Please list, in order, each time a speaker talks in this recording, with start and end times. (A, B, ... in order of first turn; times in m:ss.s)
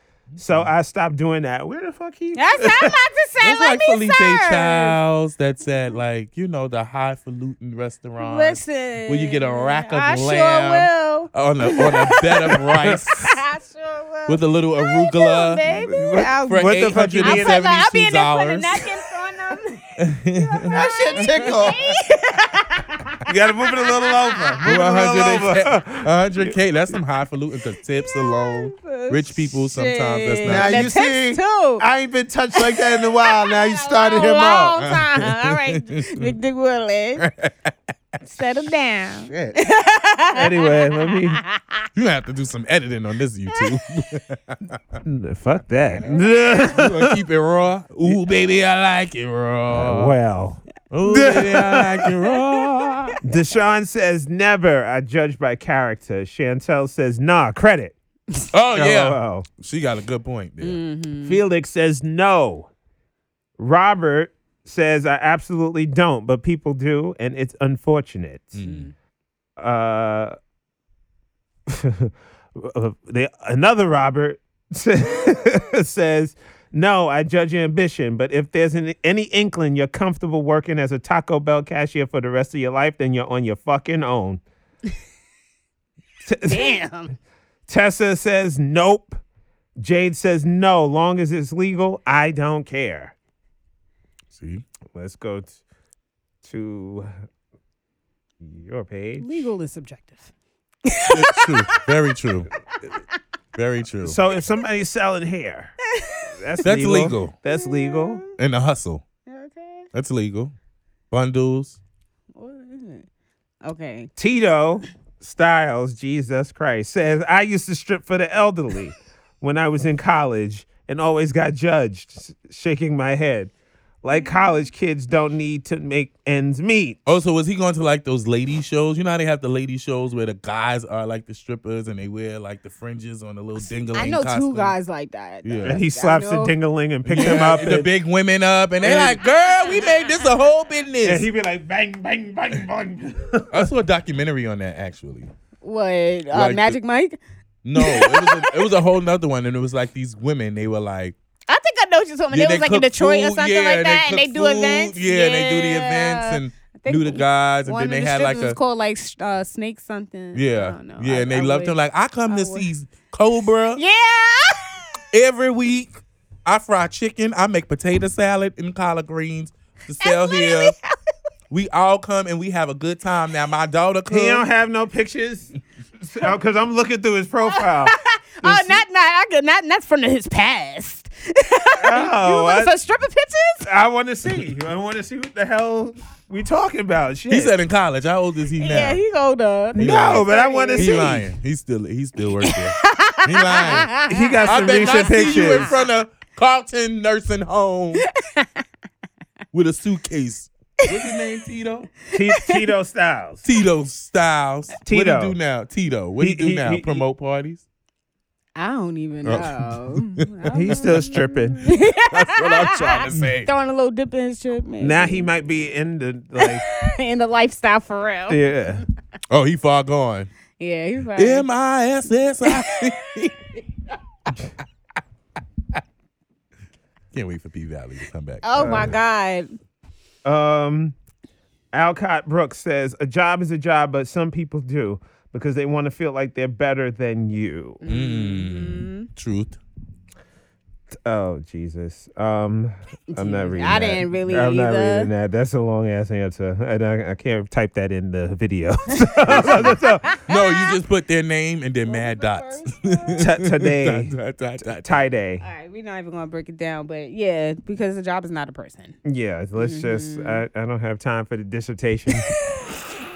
0:00.3-0:00.7 A
0:00.4-0:03.0 B
0:02.3-0:05.0 C
0:03.4-0:13.4 A
0:08.2-0:23.2 C
0:14.3-0:15.6 A
0:15.7-0:17.6 B
0:16.5-0:18.9 A
0:20.0-0:21.2 A
0:20.7-0:21.8 B
0:23.2-0:26.6 B
0:23.8-0:24.6 C
0:24.6-0:30.9 A
0:28.0-0:31.8 C
0:30.4-0:34.8 B
0:32.5-0:37.2 C
0:34.8-0:36.4 A
0:37.2-0:37.7 A
0:38.2-0:41.8 C
0:39.3-0:39.6 B
0:40.3-0:41.4 B
0:42.0-0:45.0 A
0:45.0-0:47.2 B
0:46.5-0:50.2 A
0:49.7-0:52.1 B
0:50.9-0:53.2 A
0:52.6-0:53.2 C
0:53.2-0:58.0 B
0:58.5-1:00.8 A
0:58.7-0:59.5 B
1:00.6-1:01.4 C
1:01.2-1:02.7 B
1:03.6-1:08.6 B
1:08.6-1:08.9 A
1:08.6-1:08.9 C
1:09.6-1:10.4 B
1:11.7-1:24.4 B
1:26.2-1:26.8 B
1:26.5-1:27.1 C
1:27.7-1:29.2 B
1:29.8-1:33.1 B
1:34.3-1:34.6 A
1:34.9-1:35.6 B
1:36.4-1:37.1 B
1:38.4-1:39.5 B
1:39.2-1:40.3 C
1:40.8-1:41.7 C
1:41.1-1:42.5 A
1:43.6-1:44.2 A
1:44.0-1:45.7 B
1:45.9-1:46.3 C
1:46.4-1:48.2 B
1:46.6-1:47.3 A
1:47.5-1:48.3 C
1:48.4-1:49.0 A
1:49.3-1:49.9 C
1:49.9-1:50.5 A
1:51.1-1:51.8 A
1:52.4-1:53.0 C
1:53.6-1:54.1 C
1:54.2-2:03.5 B
2:04.0-2:07.0 B
2:07.1-2:14.8 A
2:13.6-2:16.5 C
2:15.4-2:15.8 A
2:15.6-2:17.9 B
2:17.1-2:21.3 A
2:18.8-2:19.2 B
2:19.4-2:20.3 C
2:21.0-2:23.6 B
2:23.5-2:25.3 A
2:25.6-2:27.2 C
2:26.3-2:26.8 A
2:27.6-2:31.2 A
2:27.8-2:28.7 C
2:31.5-2:41.8 C
2:32.3-2:38.6 A
2:40.3-2:43.8 A
2:42.3-2:42.7 C
2:43.8-2:44.8 C
2:45.1-2:50.8 A
2:50.0-2:50.9 C
2:51.5-2:54.5 A
2:54.1-2:58.8 B
2:57.5-3:03.7 C
3:01.8-3:02.7 B
3:03.6-3:07.5 B
3:07.3-3:09.0 A
3:08.6-3:11.2 C
3:09.8-3:11.2 B
3:09.8-3:18.1 A
3:12.4-3:15.8 C
3:14.1-3:15.8 B
3:18.0-3:18.6 C
3:19.5-3:21.9 A
3:22.1-3:22.6 C
3:22.1-3:23.4 B
3:23.4-3:27.6 A
3:24.8-3:25.4 B
3:26.2-3:27.0 B
3:28.6-3:35.3 C
3:29.2-3:33.5 A
3:30.5-3:31.6 B
3:34.8-3:36.6 B
3:36.4-3:38.5 C
3:38.3-3:38.8 B
3:39.3-3:40.3 A
3:40.6-3:41.5 C
3:41.2-3:43.5 A
3:42.4-3:42.7 C
3:47.1-3:49.0 A
3:48.4-3:49.5 C
3:48.6-3:49.0 B
3:50.2-3:51.0 B
3:51.7-3:57.8 B
3:57.8-3:59.1 C
3:57.9-3:59.6 A
4:00.9-4:10.2 B
4:03.1-4:05.1 C
4:09.2-4:10.8 C
4:10.3-4:15.0 A
4:11.8-4:13.2 C
4:13.2-4:14.1 B
4:14.7-4:15.4 B
4:15.4-4:19.0 C
4:19.0-4:22.3 B
4:19.6-4:20.4 C
4:22.2-4:22.6 C